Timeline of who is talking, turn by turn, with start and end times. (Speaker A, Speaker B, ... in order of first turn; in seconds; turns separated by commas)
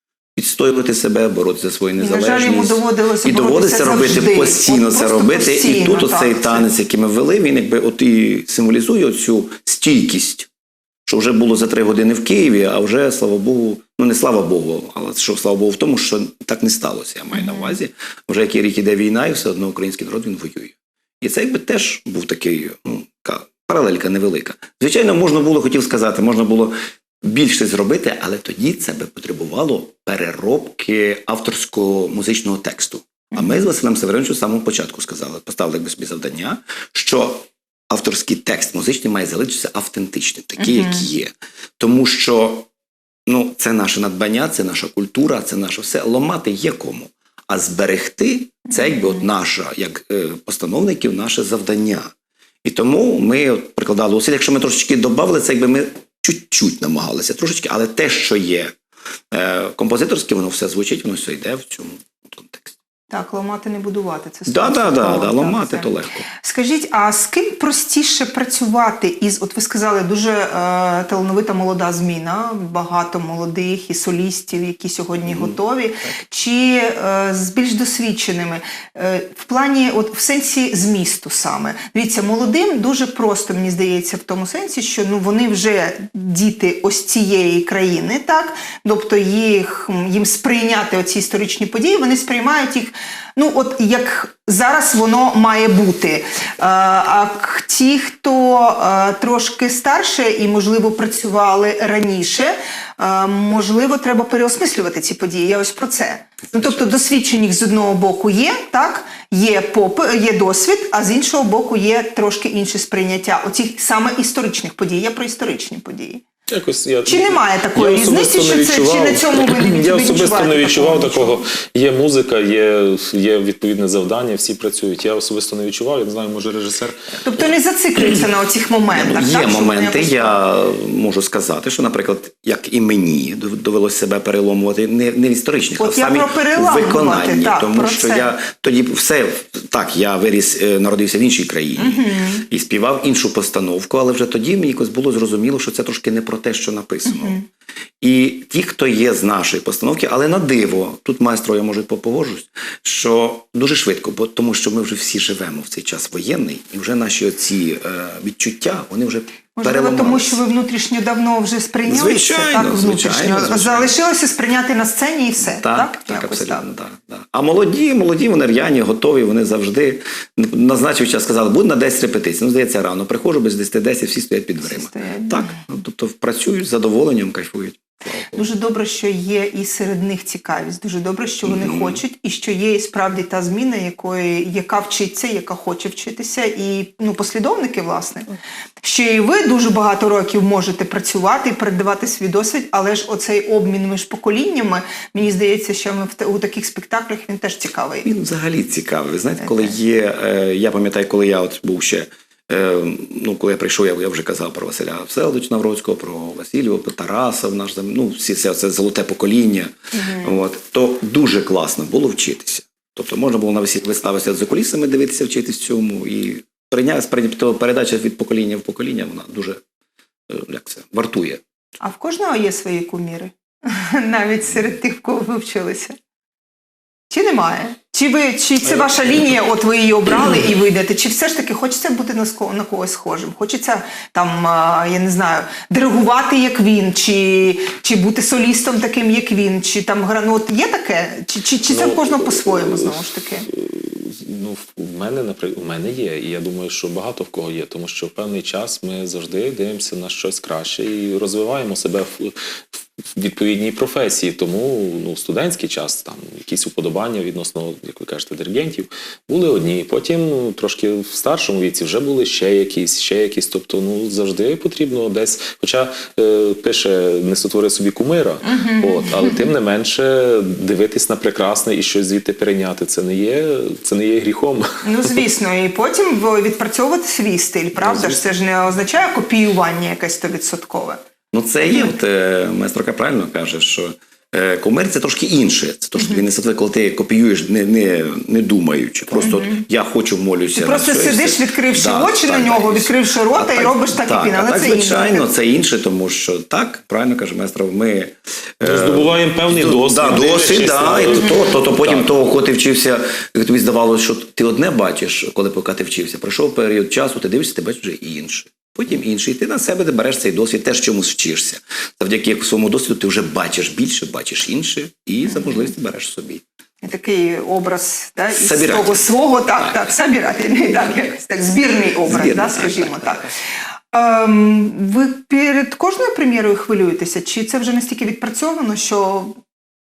Speaker A: 0.3-10.5, Speaker B: 2.0-6.6, Speaker A: 11.1-42.7, Speaker B: 17.3-17.8, Speaker B: 33.3-33.6, Speaker B: 40.6-41.1, Speaker A: 43.2-52.1, Speaker B: 48.7-48.9, Speaker A: 52.6-58.8, Speaker A: 59.3-62.8, Speaker B: 63.1-116.2, Speaker A: 64.5-66.2, Speaker A: 75.2-75.6, Speaker C: 116.5-127.2, Speaker B: 117.0-121.5, Speaker B: 127.2-130.4, Speaker A: 128.9-147.4, Speaker B: 135.8-138.3, Speaker B: 141.8-142.4, Speaker B: 147.1-147.4, Speaker A: 148.0-160.4, Speaker B: 159.6-166.6, Speaker A: 161.8-164.0, Speaker A: 165.4-178.4, Speaker B: 174.6-175.6, Speaker B: 178.3-188.3, Speaker A: 181.4-182.0, Speaker B: 188.8-198.1, Speaker A: 198.0-219.6, Speaker B: 199.4-199.7, Speaker B: 209.9-210.3, Speaker A: 220.3-221.4, Speaker B: 221.8-226.0, Speaker B: 227.1-243.5, Speaker C: 241.7-242.9, Speaker C: 243.5-275.2, Speaker B: 268.4-269.4, Speaker B: 274.8-281.0, Speaker A: 277.8-278.1, Speaker A: 281.3-316.4, Speaker B: 281.7-281.9, Speaker B: 289.1-289.6, Speaker B: 290.5-295.3, Speaker C: 298.6-302.1, Speaker B: 316.8-323.3, Speaker A: 318.3-319.0, Speaker A: 322.0-323.3, Speaker B: 323.9-329.4